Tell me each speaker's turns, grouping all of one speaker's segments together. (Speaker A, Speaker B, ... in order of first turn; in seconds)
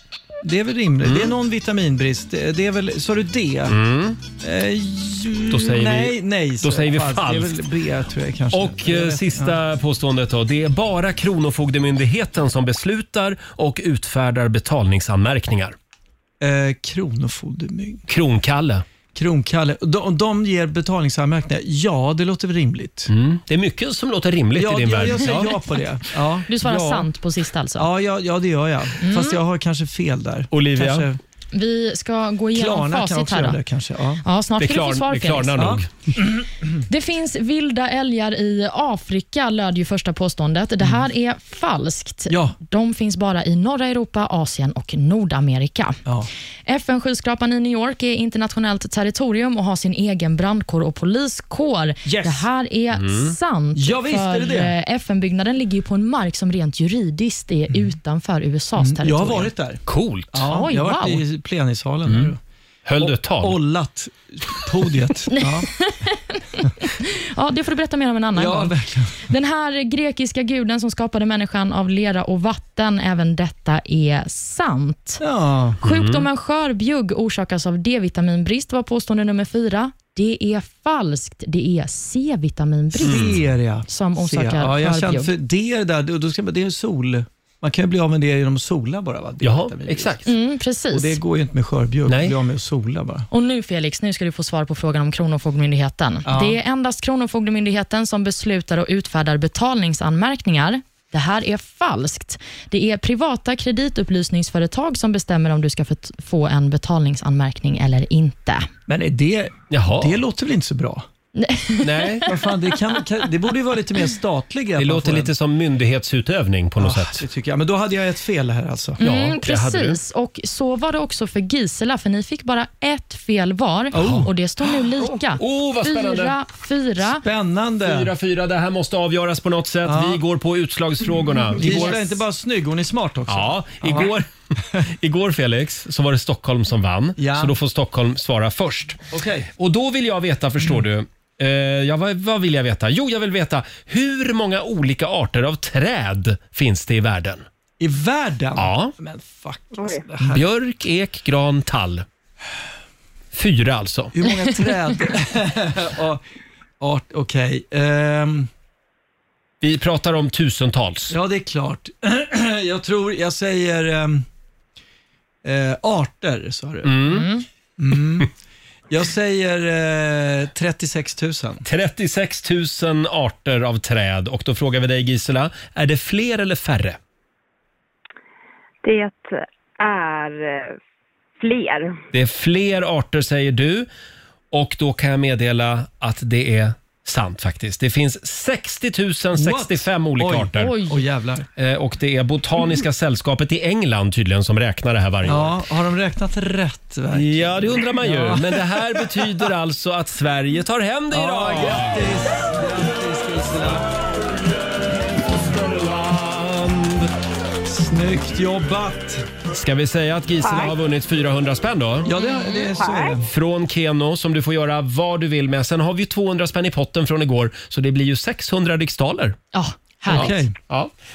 Speaker A: 0.4-3.8, 4.3-9.6, 16.4-18.0, 19.1-23.1, 24.5-27.1, 27.8-31.2, 32.5-34.2, 35.6-36.4, 42.3-42.6, 52.0-52.5, 53.8-54.7, 57.7-58.0, 58.8-62.4, 63.0-65.7, 68.3-69.3, 75.2-75.8, 83.0-90.2, 90.9-93.3, 96.2-96.6, 108.9-111.1, 112.3-115.3, 116.8-119.0, 123.9-124.3, 125.0-125.2, 127.0-128.1, 129.8-130.2, 131.6-134.1, 137.2-137.6, 139.1-139.5, 147.8-150.4, 154.1-156.2, 156.8-158.5, 161.1-164.3, 165.4-167.0, 167.8-168.3, 168.9-171.7, 189.3-191.5, 195.2-199.4, 201.1-203.9, 207.7-209.3, 212.1-213.3, 220.1-220.5
Speaker B: 1.0-1.4, 3.7-4.2, 5.5-7.7, 8.5-15.8, 18.1-18.9, 23.1-25.5, 30.5-31.1, 34.6-36.1, 52.9-53.4, 59.9-60.5, 62.1-62.3, 62.9-63.6, 75.8-76.3, 83.0-83.4, 89.4-90.3, 92.1-92.4, 109.7-110.2, 111.8-112.3, 114.8-117.2, 119.0-120.0, 123.9-124.3, 125.4-126.4, 127.8-132.2, 133.3-139.0, 139.6-147.4, 148.6-148.9, 150.2-152.1, 153.3-154.2, 159.6-161.2, 166.8-167.3, 171.7-177.0, 182.1-183.9, 184.5-190.8, 191.6-195.6, 197.1-202.1, 205.3-207.1, 209.5-212.1, 213.3-219.4, 220.1-220.9
Speaker C: 26.5-27.9, 29.0-29.4, 31.5-33.6, 34.2-35.7, 36.9-46.0, 46.7-59.5, 60.4-61.2, 65.3-75.2, 75.8-83.4, 83.9-85.3, 90.2-91.2, 93.3-108.7, 111.4-112.3, 119.0-127.2, 167.1-167.4, 190.6-191.0, 212.2-212.6, 219.5-220.4
Speaker D: 178.8-179.3, 179.8-180.8, 181.4-181.9, 212.8-213.1